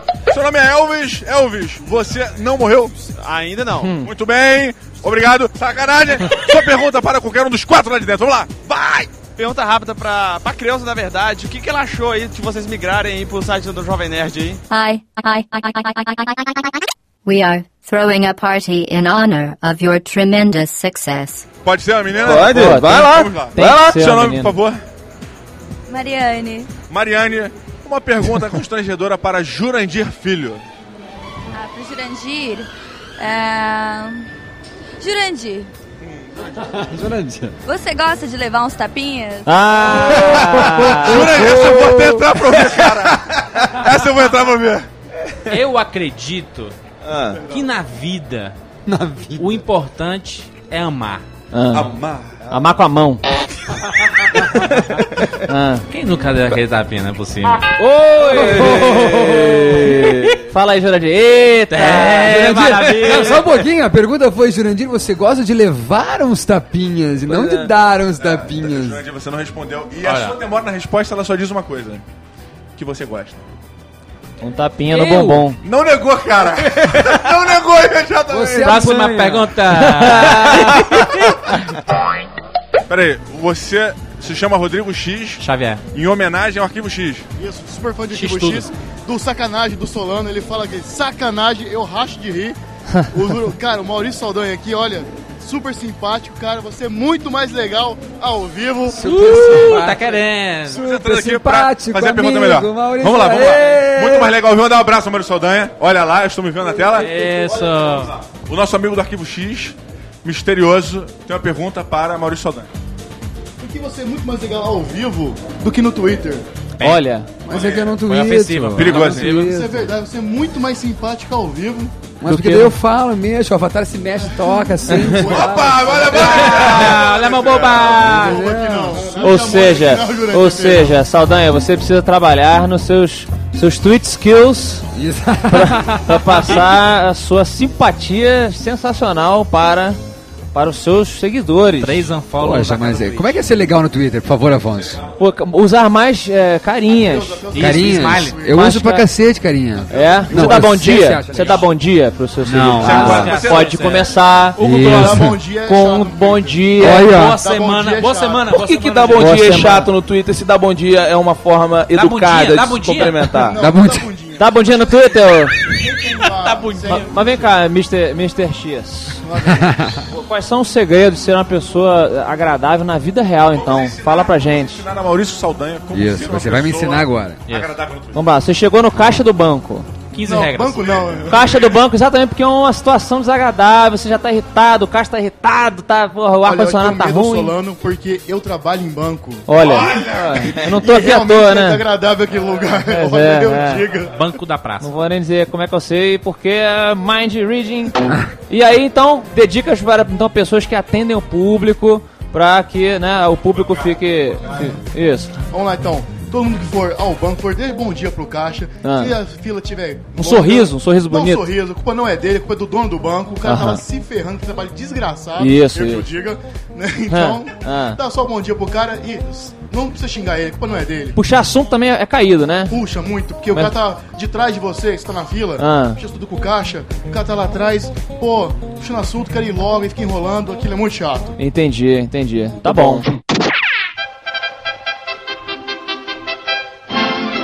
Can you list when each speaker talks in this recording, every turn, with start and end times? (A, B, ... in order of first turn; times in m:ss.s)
0:00.3-0:02.9 A
0:03.2-0:03.9 B
0:04.0-0:09.1 A
0:09.4-0:14.6 B
0:14.7-0:21.5 C
0:21.6-0:24.8 A
0:22.2-0:24.0 D
0:22.5-0:24.5 E
0:25.9-0:26.7 F
0:26.9-0:30.6 A
0:31.6-0:34.3 F
0:35.0-0:35.7 F
0:36.6-0:37.6 G
0:37.6-0:39.5 F
0:39.5-0:41.3 E
0:40.0-0:44.9 A
0:40.4-0:41.9 G
0:45.5-0:46.8 H
0:47.0-0:47.4 D
0:47.5-0:48.6 H
0:48.9-0:49.6 G
0:49.4-0:51.2 H
0:51.5-0:51.9 E
0:51.7-0:52.5 A
0:52.5-0:53.2 E
0:55.5-0:55.8 E
0:55.9-0:57.6 H
0:57.8-1:02.4 E
0:58.3-0:59.3 D
0:58.3-1:00.0 G
1:01.7-1:03.6 H
1:02.0-1:09.0 G
1:07.3-1:07.7 D
1:08.2-1:12.0 A
1:10.0-1:10.4 H
1:12.8-1:13.4 A
1:14.4-1:15.6 E
1:14.9-1:15.5 H
1:15.6-1:18.9 A
1:18.3-1:19.6 G
1:18.6-1:21.1 H
1:20.0-1:20.8 E
1:22.9-1:27.3 A
1:25.4-1:25.8 H
1:27.4-1:32.6 I
1:28.1-1:28.7 H
1:33.1-1:39.0 I
1:38.9-1:44.3 G
1:39.0-1:40.8 H
1:40.7-1:47.1 A
1:47.0-1:48.1 H
1:47.4-1:47.7 I
1:48.2-1:52.7 A
1:53.6-1:56.4 I
1:56.8-1:57.0 H
1:56.8-1:57.3 E
1:57.5-1:59.9 G
1:57.5-1:58.0 A
1:58.0-1:59.6 H
1:58.7-1:59.4 A
1:59.4-2:02.1 I
2:02.2-2:06.4 G
2:02.3-2:02.8 E
2:04.2-2:06.2 I
2:05.1-2:08.2 A
2:06.1-2:08.5 H
2:07.9-2:11.0 I
2:08.0-2:09.4 G
2:09.2-2:14.9 E
2:15.0-2:16.5 G
2:15.5-2:20.0 E
2:20.5-2:22.0 E
2:21.8-2:23.4 H
2:22.4-2:25.0 G
2:25.2-2:27.4 E
2:26.9-2:28.7 I
2:27.5-2:28.4 H
2:27.5-2:31.7 G
2:28.5-2:29.1 E
2:29.9-2:34.6 E
2:30.2-2:30.5 I
2:32.4-2:33.3 G
2:32.8-2:35.4 H
2:32.8-2:33.7 A
2:34.6-2:35.4 G
2:34.8-2:38.5 I
2:35.6-2:37.1 E
2:36.8-2:37.4 G
2:36.9-2:39.5 H
2:38.5-2:43.6 D
2:39.2-2:39.9 E
2:41.9-2:43.3 H
2:43.4-2:47.5 I
2:43.6-2:44.1 G
2:44.4-2:45.6 E
2:45.8-2:47.1 H
2:46.9-2:49.2 E
2:49.2-2:50.0 I
2:49.5-2:49.9 G
2:50.1-2:54.8 E
2:53.5-2:58.3 A
2:55.9-2:57.4 G
2:57.5-2:57.7 H
2:58.1-2:59.9 E
3:00.1-3:01.0 H
3:00.2-3:01.6 I
3:01.3-3:01.8 A
3:01.3-3:07.5 E
3:06.4-3:09.5 I
3:09.5-3:11.8 E
3:09.6-3:10.7 A
3:10.6-3:14.1 I
3:12.9-3:13.8 E
3:14.1-3:14.9 H
3:14.8-3:25.4 E
3:23.5-3:24.8 A
3:25.5-3:41.2 I
3:28.8-3:29.2 E
3:30.2-3:31.5 E
3:33.4-3:33.8 E
3:35.4-3:36.1 E
3:37.1-3:38.0 E
3:41.2-3:42.8 E
3:42.7-3:51.4 I
3:45.6-3:46.0 E
3:51.4-3:53.1 E
3:52.7-3:53.0 D